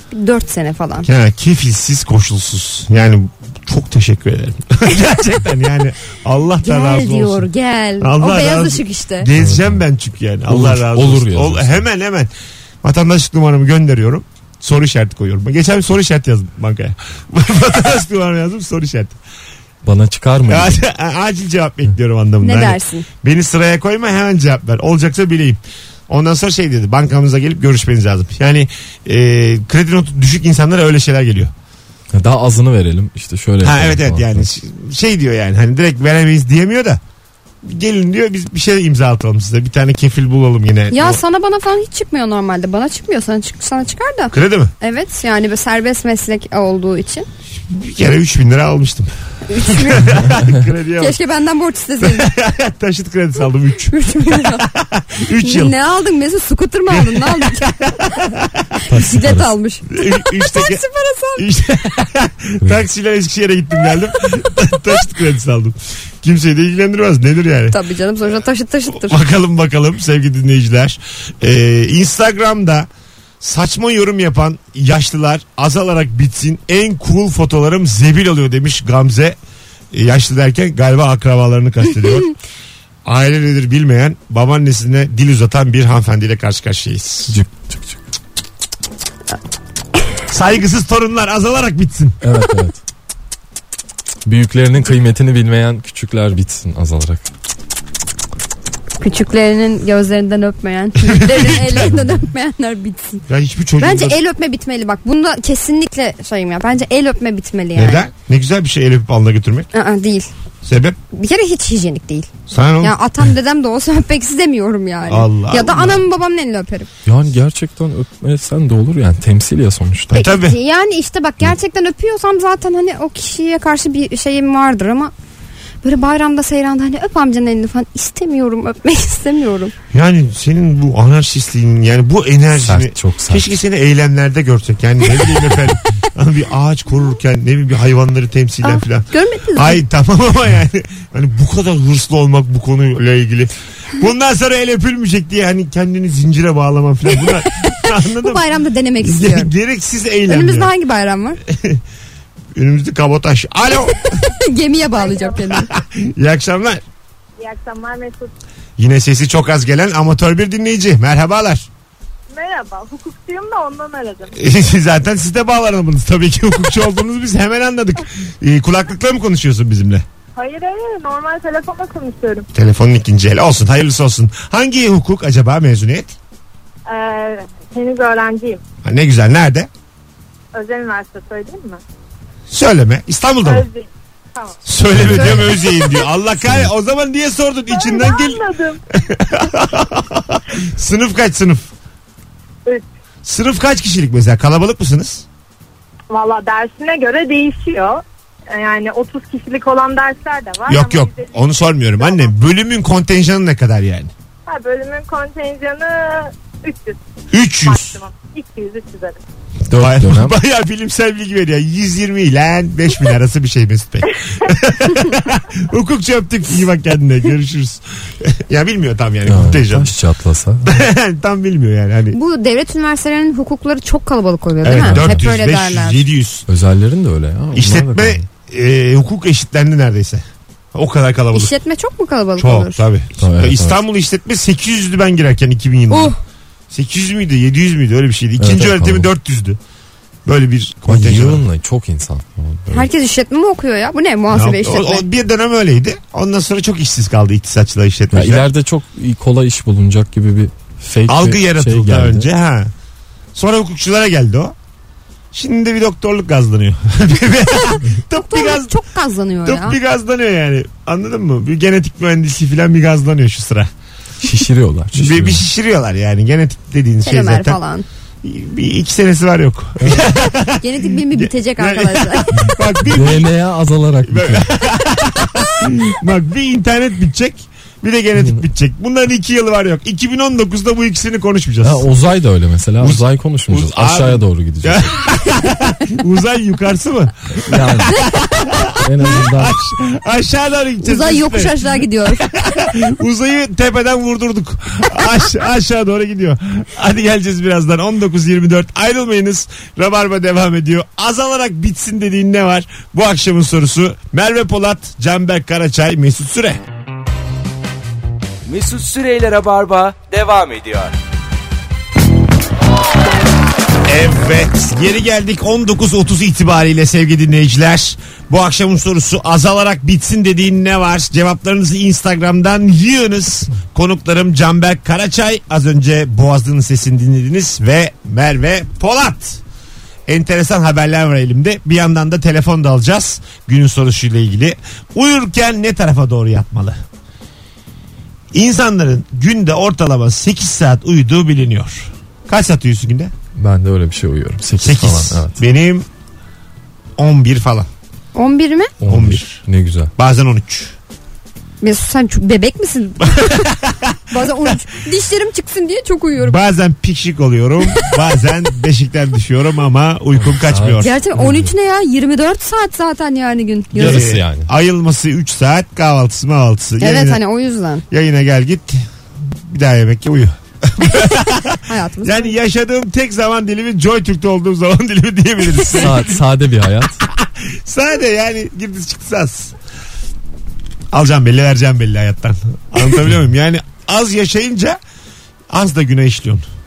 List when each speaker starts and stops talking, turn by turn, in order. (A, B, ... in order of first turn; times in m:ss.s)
0:00.1-0:01.1 A
0:01.0-0:07.5 B
0:06.6-0:09.3 A
0:08.0-0:12.3 B
0:09.4-0:09.8 C
0:10.5-0:11.8 C
0:12.8-0:19.2 B
0:19.8-0:20.8 C
0:20.5-0:31.5 B
0:22.4-0:23.1 A
0:32.1-0:34.5 C
0:33.6-0:37.0 B
0:37.6-0:41.2 B
0:40.9-0:47.3 A
0:44.3-0:44.7 B
0:47.6-0:51.2 B
0:49.5-0:50.2 A
0:51.0-0:52.3 A
0:52.0-0:55.8 B
0:53.9-0:54.7 A
0:55.4-0:57.7 A
0:56.9-0:58.6 B
0:58.9-0:59.5 C
0:58.9-1:01.4 A
0:59.9-1:00.8 B
1:01.4-1:07.8 B
1:07.7-1:09.2 A
1:08.9-1:12.9 B
1:13.4-1:19.4 B
1:19.9-1:22.3 B
1:23.0-1:27.4 B
1:27.3-1:28.0 C
1:30.3-1:32.2 B
1:32.2-1:32.8 C
1:34.2-1:37.2 C
1:39.0-1:43.2 A
1:41.0-1:41.9 B
1:43.3-1:44.2 B
1:43.8-1:48.1 A
1:47.8-1:49.7 B
1:49.7-1:50.3 A
1:50.6-1:51.0 B
1:51.1-1:56.9 A
1:52.5-1:53.0 B
1:55.1-1:56.0 B
1:57.1-2:00.2 C
2:00.1-2:00.6 B
2:00.1-2:05.1 A
2:05.8-2:09.7 A
2:09.9-2:28.4 B
2:12.6-2:13.5 C
2:18.6-2:19.8 A
2:27.6-2:29.5 A
2:29.0-2:30.7 B
2:30.3-2:31.4 A
2:31.5-2:31.8 B
2:32.6-2:34.0 B
2:34.1-2:35.7 A
2:35.0-2:35.4 D
2:35.5-2:36.8 B
2:37.4-2:38.3 D
2:38.8-2:41.7 B
2:42.3-2:44.4 D
2:44.3-2:50.0 B
2:50.4-2:52.5 D
2:52.5-2:56.2 B
2:56.9-2:58.6 D
2:58.8-2:59.7 B
3:00.5-3:01.8 D
3:02.5-3:03.7 B
3:03.4-3:04.6 D
3:04.6-3:08.4 B
3:05.0-3:05.5 C
3:06.4-3:06.7 C
3:07.7-3:08.8 D
3:08.9-3:11.7 B
3:13.2-3:15.2 B
3:16.1-3:21.4 D
3:20.7-3:24.1 B
3:22.0-3:22.3 D
3:24.5-3:27.0 D
3:27.3-3:28.0 B
3:27.6-3:29.2 D
3:29.7-3:30.4 C
3:29.7-3:39.9 B
3:39.2-3:40.8 C
3:40.6-3:42.2 B
3:42.1-3:46.1 A
3:44.6-3:46.5 B
3:44.8-3:45.2 C
3:46.5-3:48.2 C
3:47.5-3:51.5 B
3:51.3-3:52.8 A
3:52.4-3:56.2 B
3:53.2-3:53.8 C
3:55.9-3:56.2 A
3:56.7-3:59.6 B
3:58.4-3:59.1 C
4:00.2-4:01.4 B
4:00.9-4:02.9 C
4:02.7-4:05.0 A
4:04.3-4:08.5 B
4:08.1-4:12.3 C
4:11.1-4:12.7 B
4:13.4-4:14.6 B
4:15.3-4:18.7 B
4:18.1-4:19.8 A
4:19.4-4:23.7 B
4:24.2-4:25.4 C
4:24.9-4:27.6 B
4:27.0-4:27.9 A
4:28.2-4:33.3 B
4:29.8-4:30.1 C
4:30.6-4:32.4 A
4:32.4-4:34.5 C
4:34.1-4:41.9 B
4:41.6-4:44.9 C
4:42.8-4:51.6 B
4:47.5-4:47.9 C
4:48.8-4:49.6 C
4:50.8-4:52.3 A
4:52.2-5:06.6 B
5:08.5-5:10.9 E
5:13.8-5:29.4 B
5:30.1-5:36.8 B
5:38.3-5:43.1 B
5:43.4-5:45.4 C
5:44.6-5:45.9 B
5:47.0-5:47.7 B
5:48.2-5:48.7 A
5:48.8-5:49.9 C
5:48.9-5:49.4 B
5:50.0-5:50.7 B
5:51.6-5:53.5 A
5:53.1-5:54.0 B
5:54.1-5:56.4 A
5:56.2-6:00.9 B
6:00.2-6:01.5 C
6:00.8-6:04.0 A
6:03.7-6:04.5 C
6:03.8-6:07.2 B
6:06.8-6:07.8 A
6:07.9-6:16.2 B
6:11.7-6:12.3 A
6:15.7-6:17.0 C
6:17.0-6:19.5 B
6:20.9-6:24.8 B
6:25.5-6:26.5 B